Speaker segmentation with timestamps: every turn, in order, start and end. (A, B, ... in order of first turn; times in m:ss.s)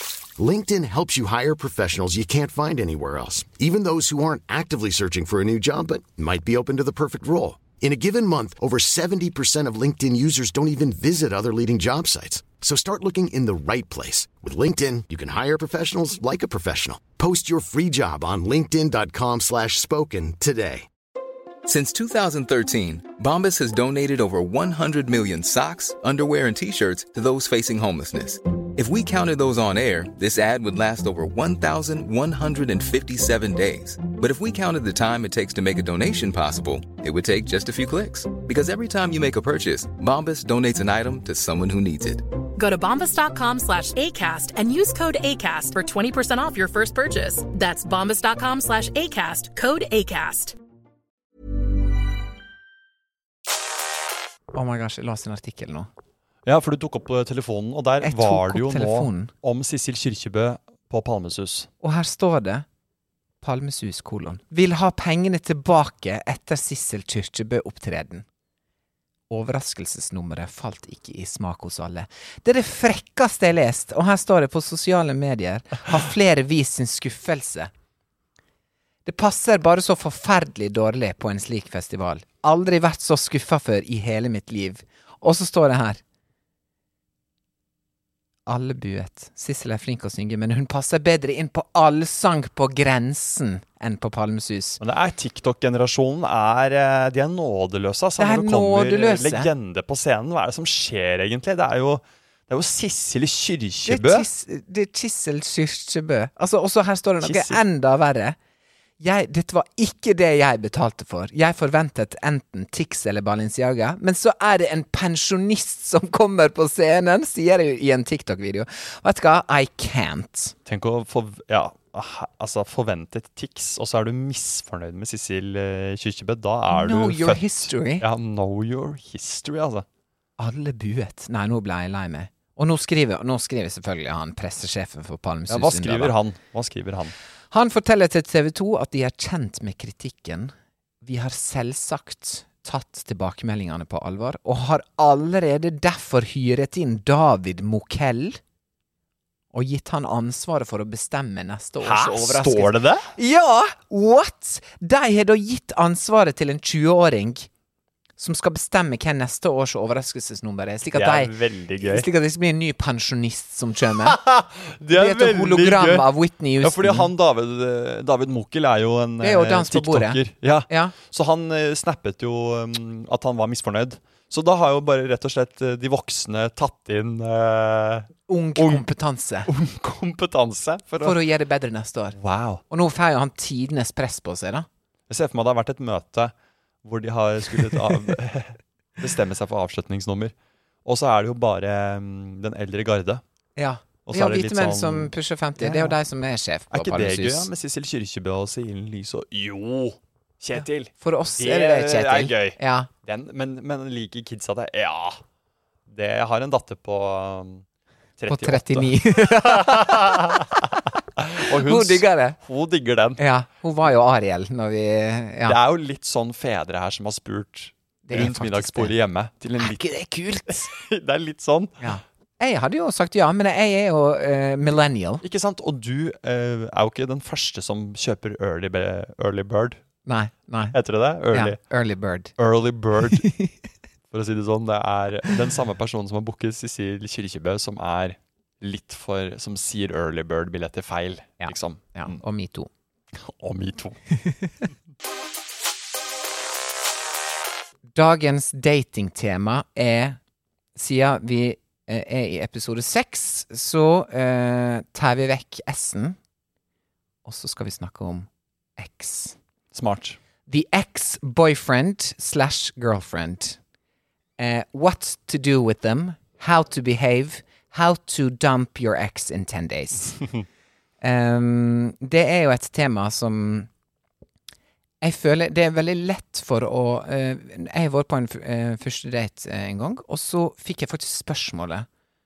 0:00.4-0:20.9 A
0:21.6-0:42.3 B
0:42.6-0:50.6 C
0:54.5-0:55.9 D
0:56.5-1:01.7 E
0:58.0-0:59.3 D
1:01.8-1:02.7 D
1:03.4-1:08.3 D
1:09.3-1:17.7 D
1:19.0-1:26.0 D
1:28.5-1:34.8 D
1:34.8-1:44.3 E
1:38.2-1:39.5 D
1:43.9-1:48.4 D
1:47.2-1:47.6 E
1:49.0-2:00.6 D
2:00.7-2:09.9 E
2:06.7-2:08.1 D
2:10.4-2:16.2 D
2:15.5-2:17.1 E
2:17.5-2:28.4 D
2:29.5-2:37.5 D
2:31.8-2:33.1 E
2:38.2-2:44.2 D
2:40.9-2:42.1 E
2:44.0-2:58.9 E
2:44.9-2:47.1 D
2:49.2-2:51.0 D
2:58.3-2:59.5 D
2:59.5-3:01.2 E
3:01.0-3:02.2 D
3:02.1-3:02.6 E
3:02.7-3:04.7 D
3:05.1-3:10.3 E
3:10.8-3:13.2 E
3:13.6-3:17.5 D
3:14.1-3:16.0 E
3:16.7-3:25.2 E
3:21.0-3:22.9 D
3:25.9-3:27.6 E
3:28.2-3:33.2 E
3:28.3-3:30.5 D
3:31.4-3:32.4 D
3:33.2-3:35.6 D
3:35.4-3:39.9 E
3:38.1-3:38.9 D
3:39.6-3:40.7 D
3:40.5-3:41.9 E
3:41.8-3:45.2 D
3:45.2-3:49.8 E
3:50.0-3:50.8 D
3:50.7-3:51.6 E
3:51.3-3:52.4 D
3:52.4-3:53.3 E
3:53.1-3:53.5 D
3:54.1-4:02.2 E
4:01.4-4:02.7 D
4:03.1-4:04.0 E
4:07.9-4:10.2 D
4:10.8-4:16.2 D
4:17.2-4:19.4 D
4:19.7-4:20.2 E
4:20.5-4:23.6 D
4:24.4-4:30.3 D
4:31.0-4:33.7 D
4:35.0-4:41.9 D